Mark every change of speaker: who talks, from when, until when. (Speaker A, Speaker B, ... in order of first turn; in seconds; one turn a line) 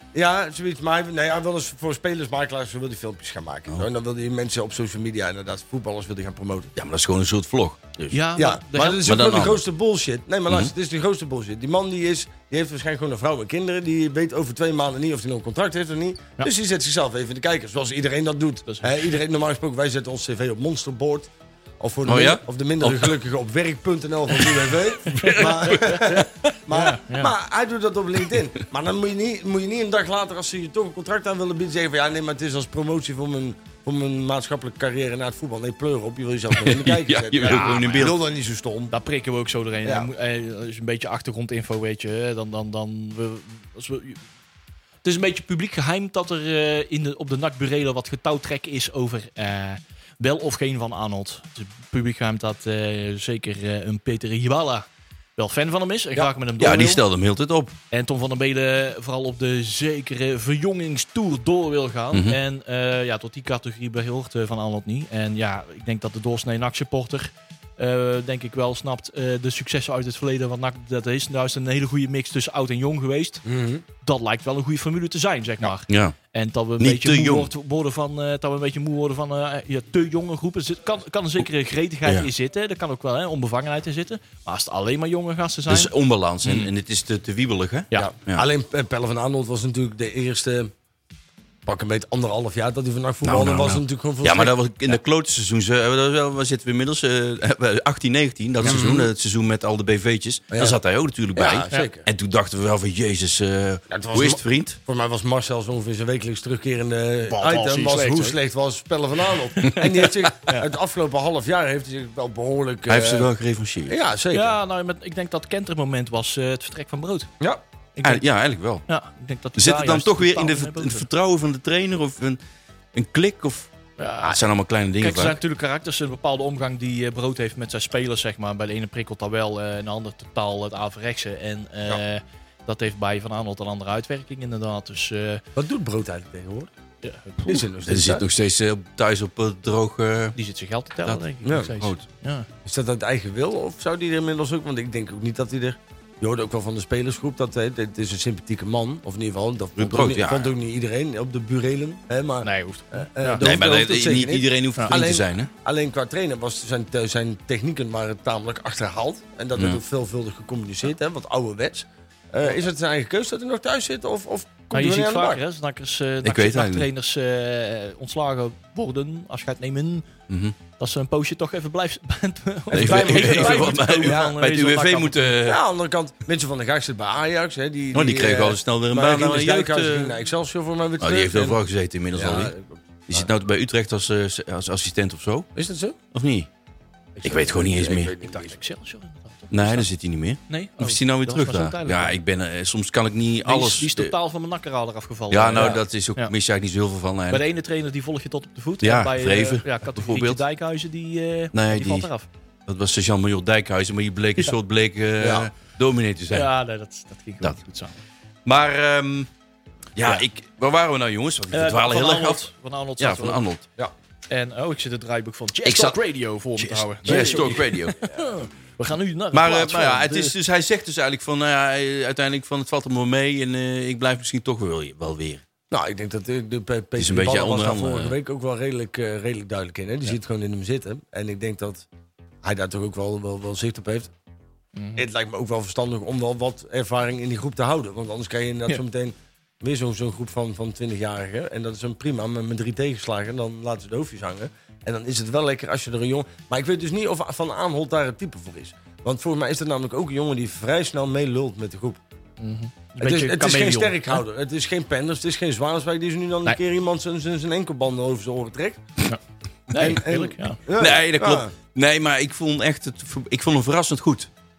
Speaker A: 0.1-6.7
Speaker B: 6.8-8.2
Speaker C: 8.1-9.1
Speaker A: 8.3-38.9
Speaker B: 9.0-9.6
Speaker C: 18.6-18.9
Speaker B: 22.1-23.2
Speaker B: 24.4-26.3
Speaker C: 25.1-27.3
Speaker B: 36.5-38.1
Speaker C: 37.4-38.1
Speaker C: 38.9-44.2
Speaker A: 39.8-40.1
Speaker C: 45.0-57.0
Speaker B: 56.6-57.7
Speaker C: 57.9-73.4
Speaker A: 73.4-73.8
Speaker C: 74.0-85.9
Speaker B: 75.9-76.1
Speaker B: 76.8-77.5
Speaker B: 85.7-88.4
Speaker C: 86.4-86.7
Speaker A: 87.9-90.7
Speaker A: 91.7-95.0
Speaker B: 93.2-104.8
Speaker A: 98.6-99.1
Speaker A: 100.5-100.8
Speaker A: 101.3-102.1
Speaker A: 103.9-113.3
Speaker C: 107.3-108.4
Speaker C: 109.5-110.6
Speaker B: 112.9-113.9
Speaker A: 113.9-114.6
Speaker C: 114.3-117.3
Speaker C: 118.0-118.2
Speaker B: 118.0-118.8
Speaker C: 118.9-121.1
Speaker B: 119.6-122.4
Speaker B: 122.9-123.7
Speaker C: 124.0-124.4
Speaker B: 124.2-125.3
Speaker C: 125.0-135.4
Speaker A: 135.6-136.7
Speaker C: 137.0-137.7
Speaker A: 137.4-138.2
Speaker B: 137.8-140.4
Speaker C: 140.3-142.5
Speaker B: 141.0-142.0
Speaker A: 141.4-141.8
Speaker A: 142.6-165.4
Speaker B: 149.8-150.5
Speaker C: 152.4-153.5
Speaker B: 153.4-155.5
Speaker C: 164.7-170.1
Speaker B: 166.2-166.9
Speaker B: 170.3-170.5
Speaker C: 170.8-175.4
Speaker A: 172.7-174.3
Speaker B: 172.7-175.6
Speaker A: 175.4-181.6
Speaker B: 177.9-180.2
Speaker B: 181.0-182.5
Speaker A: 182.1-183.3
Speaker B: 183.1-185.5
Speaker A: 185.5-186.0
Speaker B: 186.1-186.5
Speaker A: 187.2-188.6
Speaker B: 187.2-188.1
Speaker C: 188.2-189.9
Speaker B: 189.5-194.1
Speaker C: 190.5-192.2
Speaker C: 193.4-196.3
Speaker B: 195.3-197.4
Speaker A: 195.6-195.8
Speaker C: 197.3-202.3
Speaker B: 198.8-200.4
Speaker B: 201.5-202.1
Speaker B: 202.7-206.5
Speaker A: 205.2-205.5
Speaker C: 206.3-208.0
Speaker B: 208.4-209.3
Speaker B: 209.9-212.5
Speaker C: 211.5-213.4
Speaker B: 213.0-213.6
Speaker C: 214.3-220.3
Speaker B: 215.6-216.0
Speaker B: 216.6-218.0
Speaker A: 217.1-217.7
Speaker B: 219.3-225.4
Speaker A: 225.7-231.9
Speaker B: 227.0-228.1
Speaker A: 232.4-234.1
Speaker C: 234.8-235.0
Speaker A: 234.9-252.0
Speaker C: 252.4-254.2
Speaker A: 253.0-258.8
Speaker C: 259.7-260.6
Speaker A: 259.8-261.5
Speaker B: 260.8-264.3